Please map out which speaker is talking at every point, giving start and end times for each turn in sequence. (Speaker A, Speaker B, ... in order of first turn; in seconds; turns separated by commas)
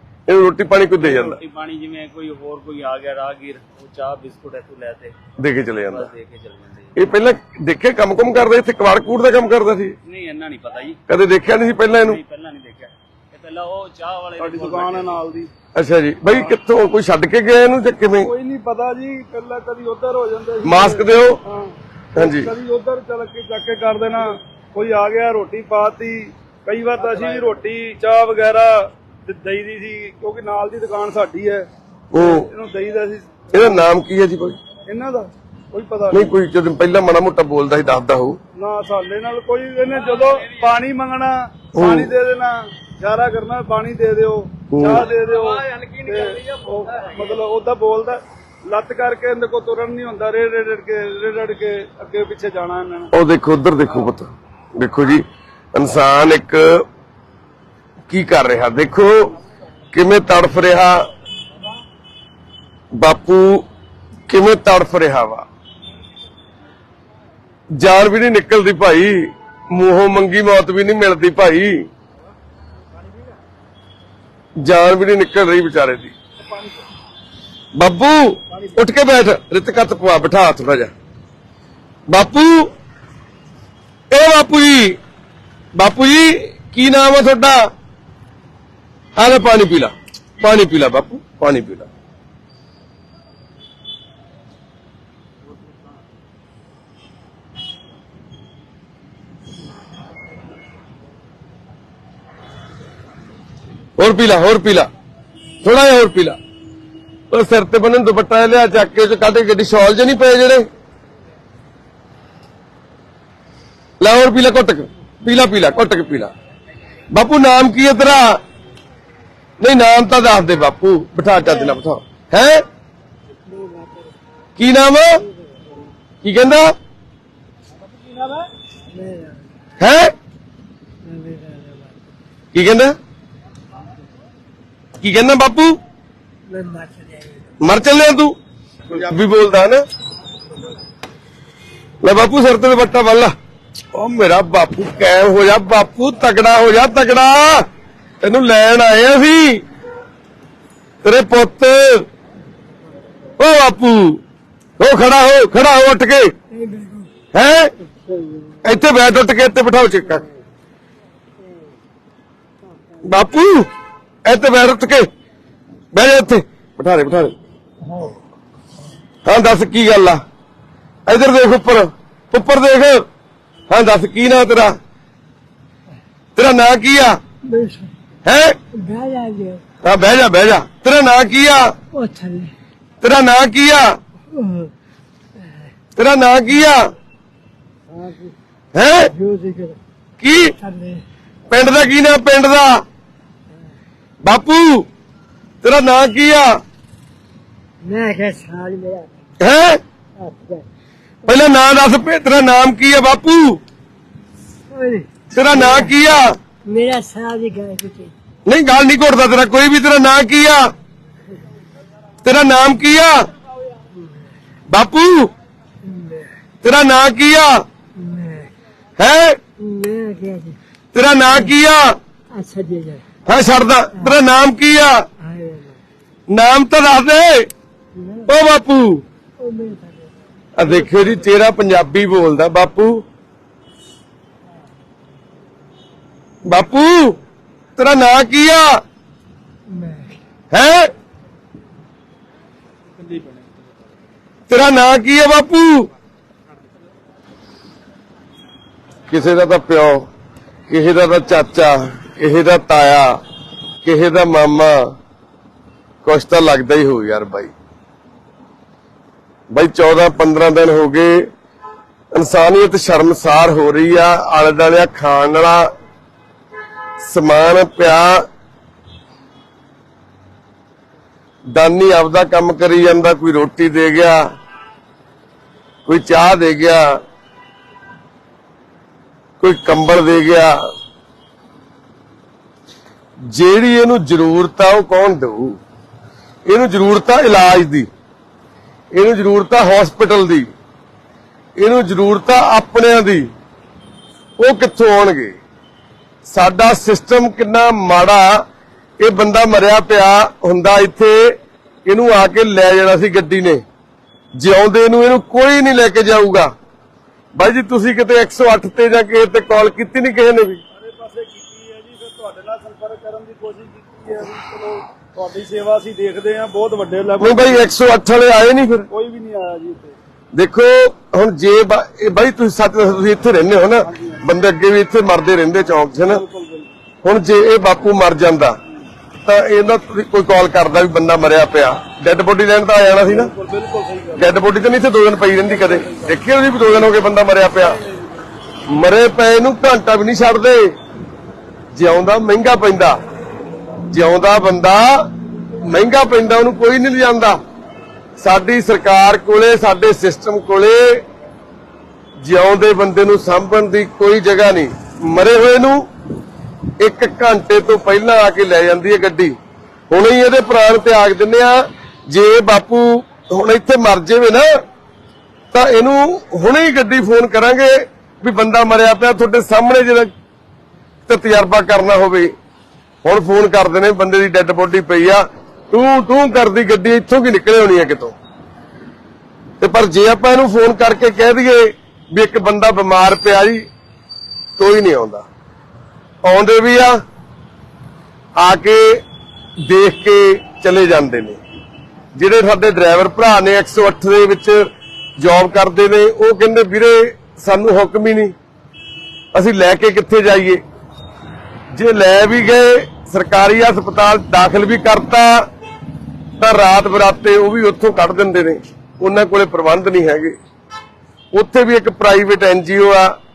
Speaker A: 0.3-1.4, Speaker B: 1.0-5.2, Speaker A: 5.4-6.1, Speaker B: 5.9-7.0, Speaker A: 7.0-9.9, Speaker B: 10.1-11.0, Speaker A: 11.1-12.2, Speaker B: 11.8-15.2, Speaker C: 14.4-15.5, Speaker A: 15.8-18.3, Speaker C: 18.2-33.8, Speaker A: 20.6-21.4, Speaker A: 22.2-22.5, Speaker B: 27.1-27.6, Speaker A: 32.1-32.5, Speaker A: 33.5-34.6, Speaker C: 34.9-36.3, Speaker A: 36.1-38.4, Speaker C: 38.5-53.1, Speaker A: 41.7-42.1, Speaker A: 44.7-45.1, Speaker B: 45.6-46.5, Speaker A: 53.1-56.9, Speaker A: 58.1-59.3, Speaker A: 59.9-61.1, Speaker A: 63.0-63.6, Speaker A: 64.3-65.5, Speaker A: 67.8-71.9, Speaker A: 74.6-76.1, Speaker A: 77.8-80.9, Speaker A: 82.1-82.7, Speaker A: 84.1-85.0, Speaker A: 85.8-87.7, Speaker A: 89.2-91.9, Speaker A: 104.0-104.9, Speaker A: 105.6-106.4, Speaker A: 107.3-110.7, Speaker A: 114.0-116.3, Speaker A: 117.1-118.4, Speaker A: 119.6-122.6, Speaker D: 121.5-121.8, Speaker D: 123.5-124.1, Speaker A: 124.6-125.2, Speaker D: 125.3-125.9, Speaker A: 126.2-126.7, Speaker D: 128.9-129.5, Speaker A: 129.8-130.1, Speaker D: 131.0-132.0, Speaker A: 132.5-132.9, Speaker A: 135.0-135.8, Speaker D: 136.5-137.5, Speaker A: 137.6-138.3, Speaker A: 138.9-139.8, Speaker A: 142.0-143.3, Speaker A: 143.9-147.7, Speaker A: 148.2-149.6, Speaker A: 151.0-152.1, Speaker A: 153.4-154.2, Speaker A: 154.8-156.3, Speaker D: 156.5-157.1, Speaker A: 157.3-157.7, Speaker D: 157.8-158.6, Speaker A: 158.6-160.2, Speaker A: 163.1-163.7, Speaker A: 164.2-165.1, Speaker A: 165.9-167.3, Speaker D: 167.9-168.2, Speaker A: 169.2-170.2, Speaker A: 171.1-173.1, Speaker A: 173.7-174.8, Speaker A: 176.4-177.2, Speaker D: 177.4-177.9, Speaker A: 178.2-178.6, Speaker D: 178.7-179.6, Speaker A: 179.8-181.8, Speaker D: 181.9-182.5, Speaker A: 183.0-184.0, Speaker D: 184.3-184.7, Speaker A: 186.0-186.9, Speaker D: 187.9-188.3, Speaker A: 188.7-189.1, Speaker D: 189.1-189.8, Speaker A: 190.2-190.5, Speaker D: 190.6-191.0, Speaker A: 191.5-192.8, Speaker A: 194.2-194.9, Speaker A: 195.6-196.6, Speaker D: 197.8-199.1, Speaker A: 199.4-199.8, Speaker D: 200.2-200.7, Speaker A: 201.2-203.6, Speaker D: 204.7-205.9, Speaker A: 205.3-206.4, Speaker D: 206.7-208.2, Speaker A: 208.5-210.7, Speaker A: 212.2-213.3, Speaker D: 214.0-214.3, Speaker A: 214.7-215.3, Speaker D: 215.8-216.3, Speaker A: 216.6-217.6, Speaker D: 218.0-218.5, Speaker A: 219.0-219.4, Speaker D: 219.6-220.6, Speaker A: 220.9-222.0, Speaker D: 222.3-223.0, Speaker A: 223.3-225.1, Speaker D: 225.2-225.8, Speaker A: 226.3-227.5, Speaker D: 227.9-228.3, Speaker A: 228.3-229.0, Speaker D: 229.4-231.1, Speaker A: 230.6-233.1, Speaker A: 236.5-237.2, Speaker A: 237.8-238.8, Speaker D: 239.7-240.2, Speaker A: 240.5-240.9, Speaker B: 243.0-243.5, Speaker A: 244.5-245.9, Speaker A: 249.1-250.1, Speaker A: 250.7-253.2, Speaker A: 253.8-255.0, Speaker A: 256.0-257.5, Speaker A: 259.5-261.3, Speaker A: 262.1-265.7, Speaker A: 267.0-268.2, Speaker A: 271.5-274.3, Speaker A: 275.9-277.0, Speaker A: 279.4-280.7, Speaker A: 283.3-285.6, Speaker A: 286.5-287.9, Speaker A: 288.9-290.5, Speaker A: 291.6-293.3, Speaker A: 294.4-295.4, Speaker A: 296.3-298.4, Speaker A: 299.0-301.4, Speaker A: 301.9-303.6, Speaker A: 304.4-306.5, Speaker A: 307.4-310.6, Speaker C: 310.8-317.7, Speaker A: 317.2-318.9, Speaker C: 318.9-320.0, Speaker A: 320.3-326.2, Speaker C: 323.8-324.2, Speaker C: 326.0-326.7, Speaker A: 327.0-328.6, Speaker A: 329.2-333.3, Speaker C: 332.8-334.3, Speaker A: 334.2-337.8, Speaker C: 335.5-336.1, Speaker A: 338.7-340.7, Speaker A: 341.7-343.0, Speaker A: 343.9-345.1, Speaker A: 345.6-347.4, Speaker A: 348.2-351.0, Speaker A: 352.2-355.9, Speaker A: 356.8-359.4, Speaker A: 359.9-364.6, Speaker A: 365.5-370.1, Speaker A: 371.1-372.3, Speaker A: 373.0-378.1, Speaker A: 379.6-383.6, Speaker A: 384.6-385.2, Speaker A: 386.2-387.0, Speaker A: 388.4-389.0, Speaker A: 389.6-391.4, Speaker A: 392.1-394.6, Speaker A: 395.2-398.3, Speaker A: 399.3-400.6, Speaker A: 401.7-405.5, Speaker A: 406.4-410.4, Speaker A: 411.3-413.1